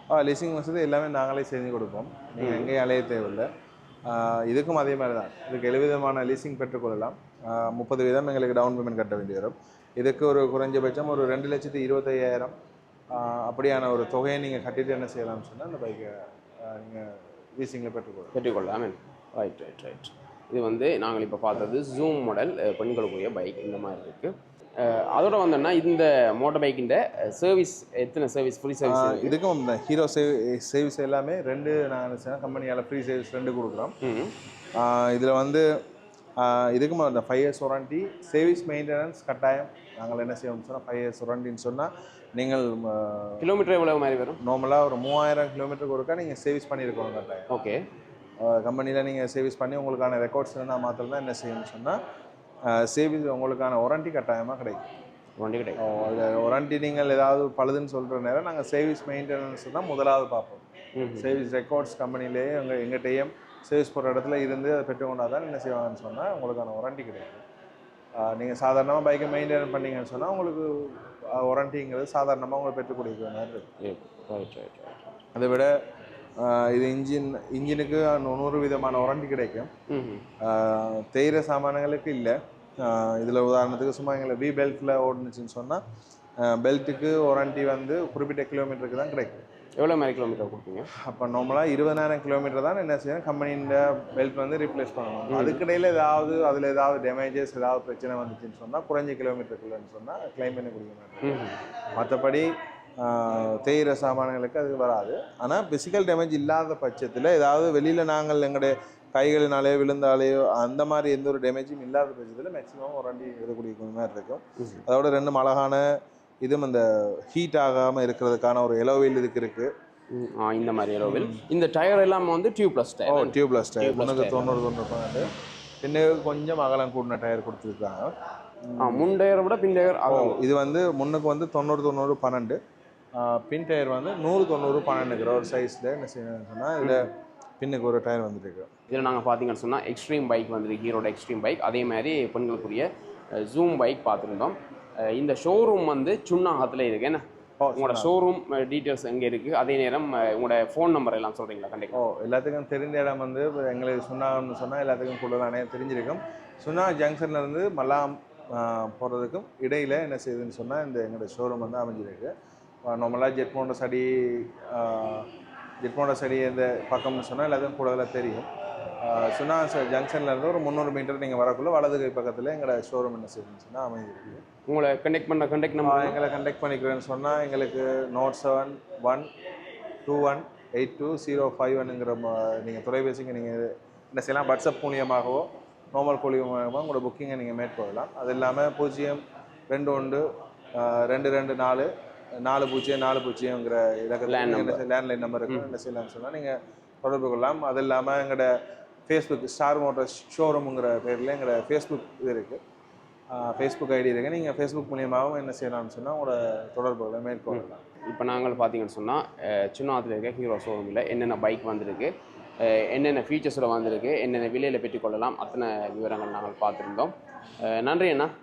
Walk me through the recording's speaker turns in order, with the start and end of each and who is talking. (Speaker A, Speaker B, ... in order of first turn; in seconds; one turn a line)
Speaker A: 0.1-3.5
Speaker B: 2.4-2.7
Speaker A: 4.0-12.5
Speaker A: 13.1-18.3
Speaker B: 18.3-29.4
Speaker A: 28.8-33.9
Speaker B: 34.0-34.3
Speaker A: 34.7-35.7
Speaker A: 36.4-43.5
Speaker B: 43.4-44.4
Speaker A: 44.4-47.5
Speaker B: 47.5-47.8
Speaker A: 48.4-52.0
Speaker A: 52.7-54.8
Speaker B: 55.4-55.9
Speaker A: 55.8-60.6
Speaker B: 60.9-61.4
Speaker A: 61.2-67.4
Speaker A: 68.2-73.7
Speaker B: 73.8-75.0
Speaker A: 75.3-75.8
Speaker A: 76.4-79.7
Speaker B: 79.9-80.2
Speaker A: 80.4-85.8
Speaker A: 86.4-89.4
Speaker B: 89.8-90.9
Speaker A: 91.0-119.7
Speaker B: 95.3-95.6
Speaker B: 101.2-101.5
Speaker B: 114.6-114.8
Speaker B: 120.1-124.6
Speaker A: 121.0-121.4
Speaker A: 123.1-125.3
Speaker A: 125.8-128.1
Speaker A: 128.7-129.1
Speaker B: 128.8-130.4
Speaker A: 130.1-132.6
Speaker A: 133.1-138.7
Speaker B: 136.8-137.1
Speaker B: 138.9-147.2
Speaker A: 147.6-148.1
Speaker B: 147.8-152.0
Speaker A: 151.9-162.3
Speaker A: 162.8-165.3
Speaker A: 165.8-168.5
Speaker A: 169.0-174.4
Speaker B: 174.7-176.2
Speaker A: 175.8-179.3
Speaker A: 180.0-191.9
Speaker A: 192.4-198.5
Speaker B: 194.2-194.8
Speaker A: 199.1-202.6
Speaker A: 203.3-207.8
Speaker B: 207.5-218.3